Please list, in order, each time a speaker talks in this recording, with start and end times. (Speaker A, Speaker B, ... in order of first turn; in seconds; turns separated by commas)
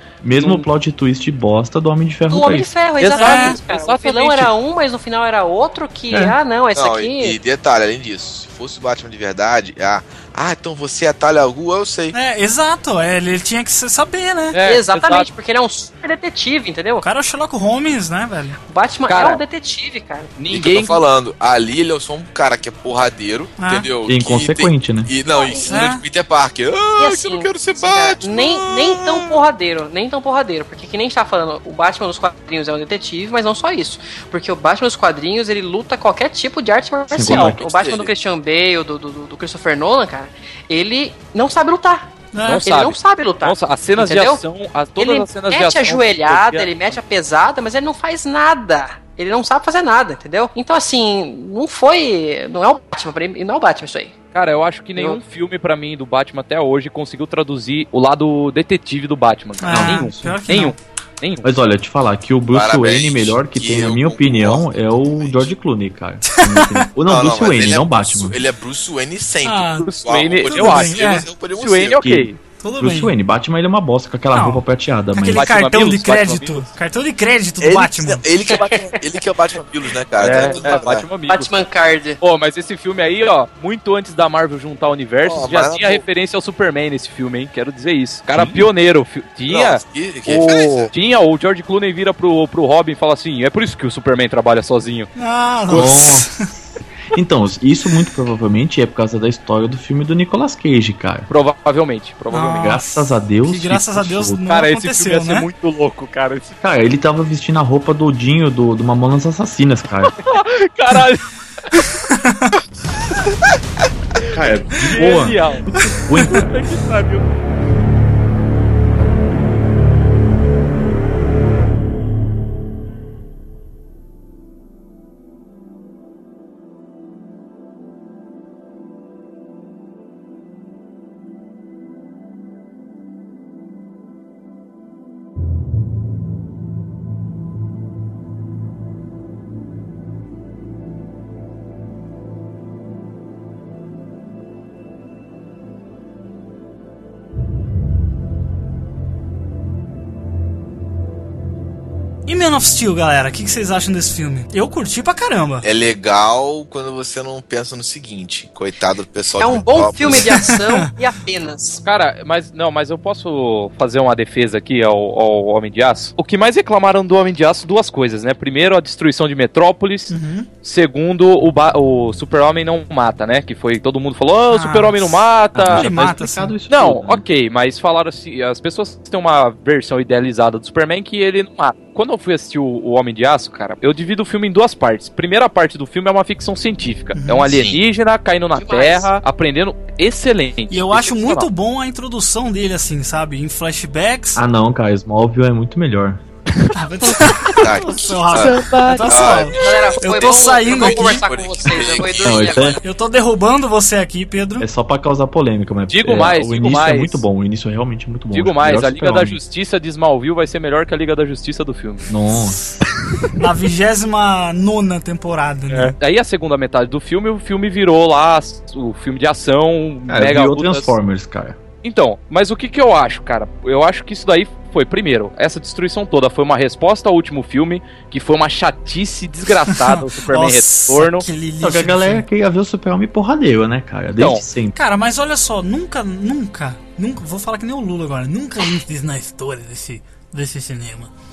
Speaker A: 0.2-2.7, Speaker B: 0.4-0.7, Speaker C: 2.3-7.4, Speaker B: 3.0-4.5, Speaker D: 3.2-3.6, Speaker A: 6.1-6.4, Speaker E: 6.8-12.2, Speaker D: 12.1-14.6, Speaker B: 14.5-15.3, Speaker C: 14.6-17.0, Speaker D: 17.0-18.6, Speaker C: 18.7-20.3, Speaker B: 19.1-19.4, Speaker B: 20.4-21.0, Speaker E: 20.5-29.4, Speaker D: 23.6-23.9, Speaker A: 24.1-25.1, Speaker C: 25.3-25.8, Speaker D: 25.7-26.0, Speaker C: 27.0-42.1, Speaker A: 37.1-37.6, Speaker E: 37.2-38.1, Speaker D: 42.3-42.7, Speaker B: 42.5-46.9, Speaker C: 42.6-44.4, Speaker C: 45.0-54.1, Speaker B: 54.3-61.5, Speaker D: 59.6-60.8, Speaker A: 59.7-60.4, Speaker A: 61.4-68.4, Speaker E: 62.5-65.5, Speaker D: 66.3-66.9, Speaker E: 67.1-72.1, Speaker D: 69.4-69.9, Speaker B: 69.8-72.4, Speaker D: 70.5-71.3, Speaker A: 72.0-72.3, Speaker D: 72.6-73.1, Speaker A: 72.8-75.5, Speaker D: 74.3-78.2, Speaker B: 75.3-76.7, Speaker E: 77.6-81.1, Speaker C: 78.5-79.0, Speaker B: 80.2-81.5, Speaker C: 80.4-82.2, Speaker B: 82.2-95.1, Speaker E: 85.2-86.0, Speaker A: 88.4-88.6, Speaker E: 89.5-90.9, Speaker D: 95.2-96.3, Speaker A: 95.7-96.3, Speaker A: 97.1-101.3, Speaker B: 101.3-102.8, Speaker D: 102.3-105.5, Speaker A: 102.4-104.4, Speaker B: 104.5-106.6, Speaker A: 106.6-110.2, Speaker B: 110.2-111.9, Speaker D: 112.1-112.5, Speaker A: 114.3-116.5, Speaker B: 114.8-115.7, Speaker B: 116.2-117.2, Speaker D: 152.3-155.7, Speaker E: 155.6-160.4, Speaker C: 159.4-161.8, Speaker D: 160.3-160.9, Speaker B: 161.8-170.1, Speaker D: 170.1-170.5, Speaker B: 170.6-175.9, Speaker D: 174.5-176.5, Speaker A: 175.6-177.2, Speaker B: 176.7-191.5, Speaker D: 187.2-187.5, Speaker E: 187.5-187.8, Speaker C: 188.6-189.1, Speaker D: 190.7-194.4, Speaker A: 194.4-196.2, Speaker D: 196.8-201.3, Speaker E: 197.6-202.7, Speaker B: 198.4-199.2, Speaker C: 199.5-202.8, Speaker A: 202.2-202.8, Speaker D: 202.8-204.7, Speaker A: 204.6-209.4, Speaker B: 205.9-207.2, Speaker B: 208.3-212.1, Speaker A: 212.1-212.6, Speaker D: 213.4-215.9, Speaker B: 215.7-220.9, Speaker A: 220.1-221.6, Speaker B: 221.8-231.3, Speaker D: 229.7-232.2, Speaker A: 231.6-234.8, Speaker B: 234.2-234.4, Speaker D: 234.7-241.1